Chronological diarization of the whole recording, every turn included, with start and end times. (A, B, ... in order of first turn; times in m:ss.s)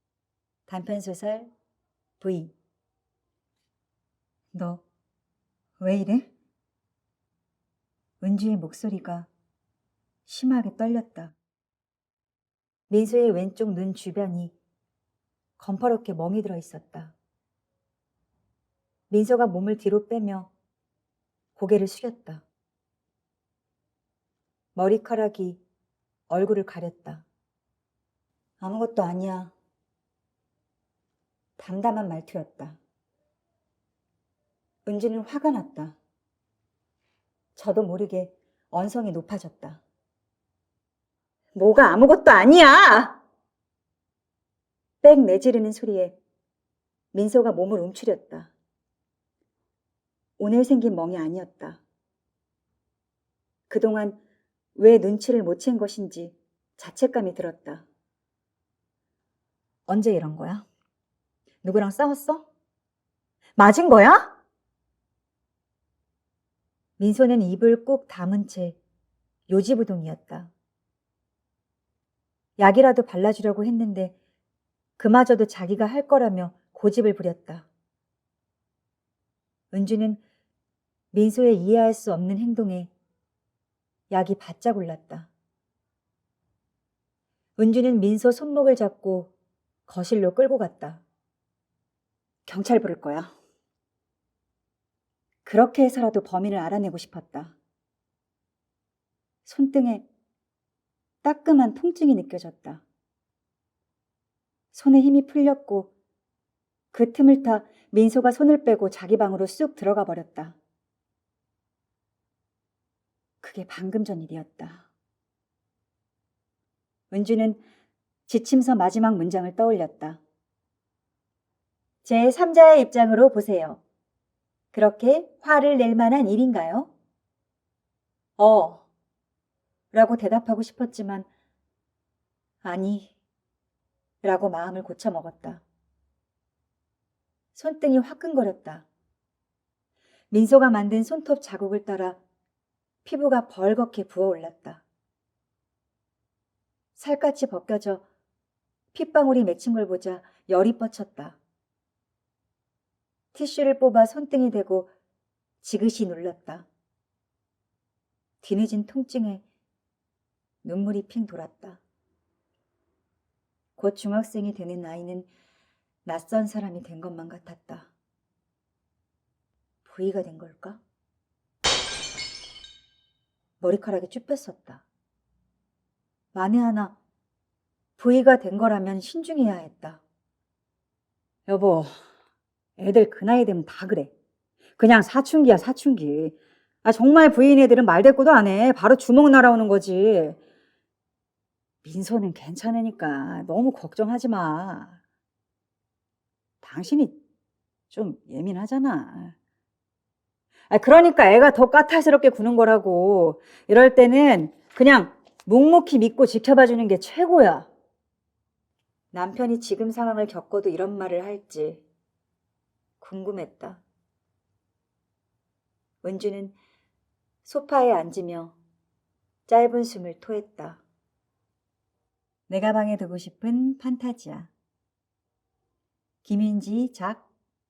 0:00.7-0:01.5 A
0:02.2-0:02.5 A
0:04.5-0:04.8 A
0:05.8-0:06.3 A
0:08.2-0:09.3 A
0:10.3-0:11.3 A
0:12.9-0:14.5 A
0:15.6-0:17.2 A
0:19.1-0:20.5 A
0:21.6-0:22.4 A
0:24.8-0:25.6 A
0:26.3-0:27.2 A
0:28.6-0:29.5 A
0:31.6-0:32.8 A
0:34.9-0:36.0 A
0:37.6-0:39.8 A
0:41.6-0:43.2 A
0:45.0-0:46.2 A
0:47.1-0:48.5 A
0:50.4-0:51.8 A
0:53.7-0:54.2 A
0:54.8-0:57.8 A
0:59.9-1:00.7 A
1:01.6-1:02.5 A
1:03.6-1:04.3 A
1:07.0-1:08.8 A
1:09.5-1:10.5 A
1:12.6-1:14.1 A
1:15.0-1:17.7 A
1:19.7-1:20.2 A
1:21.1-1:22.9 A
1:24.1-1:25.3 A
1:27.6-1:29.3 A
1:29.9-1:31.0 A
1:32.4-1:33.3 A
1:35.4-1:37.6 A
1:39.4-1:40.0 A
1:41.2-1:42.8 A
1:44.7-1:45.9 A
1:46.9-1:50.6 A
1:53.4-1:54.8 A
1:57.1-1:57.6 A
1:58.3-2:00.2 A
2:02.0-2:03.8 A
2:04.7-2:06.9 A
2:08.4-2:08.8 A
2:09.9-2:11.3 A
2:12.6-2:13.1 A
2:14.2-2:15.6 A
2:17.6-2:18.9 A
2:20.3-2:22.2 A
2:23.0-2:24.8 A
2:27.0-2:28.0 A
2:28.9-2:31.4 A
2:33.3-2:34.9 A
2:35.6-2:36.7 A
2:38.4-2:39.4 A
2:40.6-2:41.8 A
2:43.8-2:45.3 A
2:46.0-2:47.9 A
2:49.8-2:50.8 A
2:53.6-2:54.8 A
2:56.3-2:57.0 A
2:58.0-3:00.0 A
3:01.5-3:01.9 A
3:02.8-3:04.1 A
3:04.8-3:10.4 A
3:11.8-3:15.0 A
3:16.6-3:17.2 A
3:17.9-3:19.3 A
3:20.7-3:27.7 A
3:29.1-3:31.8 A
3:33.0-3:33.8 A
3:36.0-3:36.6 A
3:37.4-3:38.6 A
3:39.5-3:40.8 A
3:42.5-3:44.5 A
3:46.2-3:47.3 A